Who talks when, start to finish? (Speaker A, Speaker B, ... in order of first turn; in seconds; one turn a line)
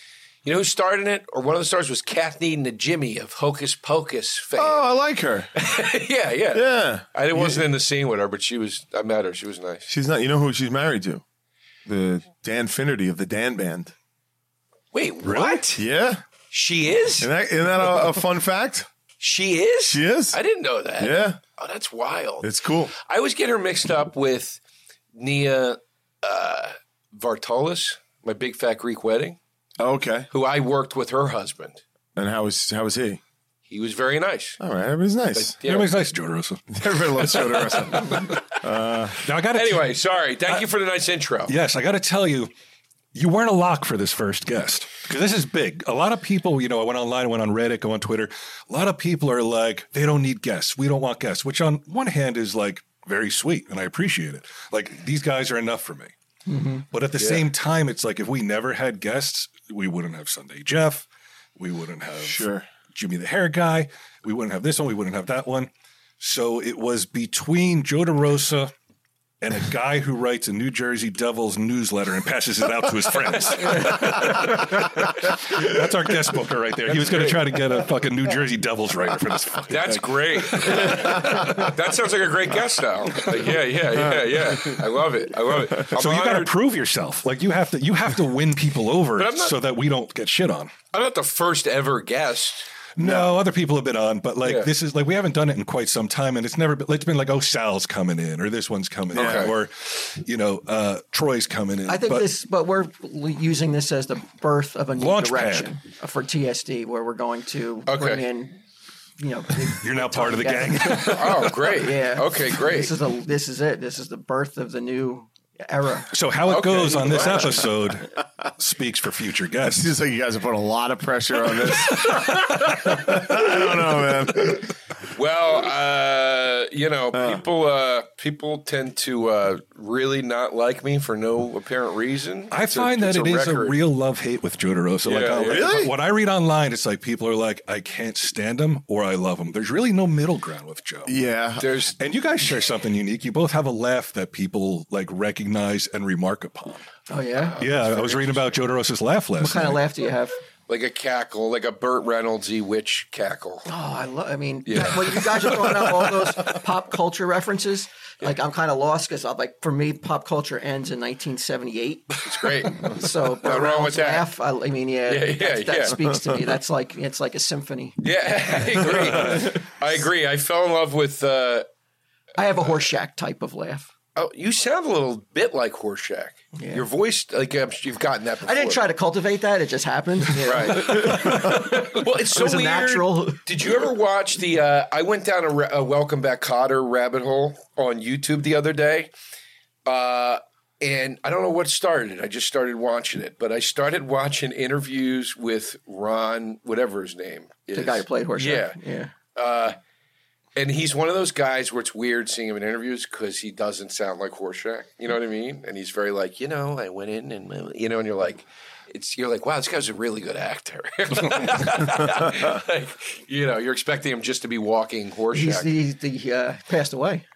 Speaker A: 0.5-4.8
Speaker B: 4.6-5.5
Speaker A: 5.6-9.9
Speaker B: 6.5-7.7
Speaker B: 9.9-11.2
Speaker B: 11.9-13.9
Speaker A: 14.9-15.8
Speaker C: 15.2-15.7
Speaker B: 15.8-16.2
Speaker A: 16.5-17.3
Speaker B: 17.2-18.9
Speaker A: 19.2-24.6
Speaker B: 19.9-20.4
Speaker B: 21.0-21.4
Speaker B: 22.4-22.9
Speaker A: 25.2-29.4
Speaker B: 29.8-30.3
Speaker A: 30.3-31.8
Speaker B: 32.1-33.2
Speaker A: 33.7-34.6
Speaker B: 34.6-35.5
Speaker A: 35.4-36.0
Speaker C: 35.6-36.6
Speaker B: 36.7-39.2
Speaker C: 37.2-37.6
Speaker A: 37.2-38.6
Speaker C: 39.2-39.9
Speaker A: 39.5-41.5
Speaker C: 41.5-42.5
Speaker C: 43.1-56.1
Speaker D: 56.5-56.9
Speaker C: 56.9-68.7
Speaker A: 57.2-57.5
Speaker B: 62.2-62.7
Speaker C: 69.4-81.7
Speaker A: 76.9-77.6
Speaker A: 79.7-86.5
Speaker C: 85.8-90.8
Speaker A: 89.2-89.5
Speaker A: 90.9-92.7
Speaker C: 93.0-102.3
Speaker B: 93.0-93.3
Speaker A: 94.4-94.7
Speaker B: 99.1-99.5
Speaker A: 99.1-99.6
Speaker D: 101.9-108.6
Speaker C: 105.0-105.7
Speaker A: 107.9-108.2
Speaker D: 109.2-116.1
Speaker C: 109.8-111.5
Speaker A: 110.9-112.9
Speaker C: 116.1-119.9
Speaker A: 116.5-117.7
Speaker B: 119.7-124.7
Speaker A: 122.0-122.3
Speaker A: 125.1-133.8
Speaker B: 127.1-127.4
Speaker C: 132.5-141.2
Speaker A: 135.0-135.8
Speaker B: 135.4-135.9
Speaker B: 141.1-141.7
Speaker A: 141.6-142.0
Speaker C: 142.0-146.9
Speaker D: 147.1-147.6
Speaker A: 147.4-148.6
Speaker C: 147.6-149.8
Speaker D: 149.4-150.4
Speaker A: 150.7-153.7
Speaker D: 153.7-162.2
Speaker A: 154.7-156.2
Speaker A: 162.2-164.3
Speaker D: 162.7-169.6
Speaker A: 165.1-166.0
Speaker A: 168.0-171.7
Speaker C: 169.0-169.5
Speaker D: 172.4-173.9
Speaker A: 174.2-178.8
Speaker D: 176.6-176.8
Speaker D: 178.4-183.4
Speaker A: 180.4-189.1
Speaker A: 189.9-198.8
Speaker D: 197.7-199.1
Speaker A: 199.3-199.8
Speaker A: 200.6-215.7
Speaker D: 215.3-217.2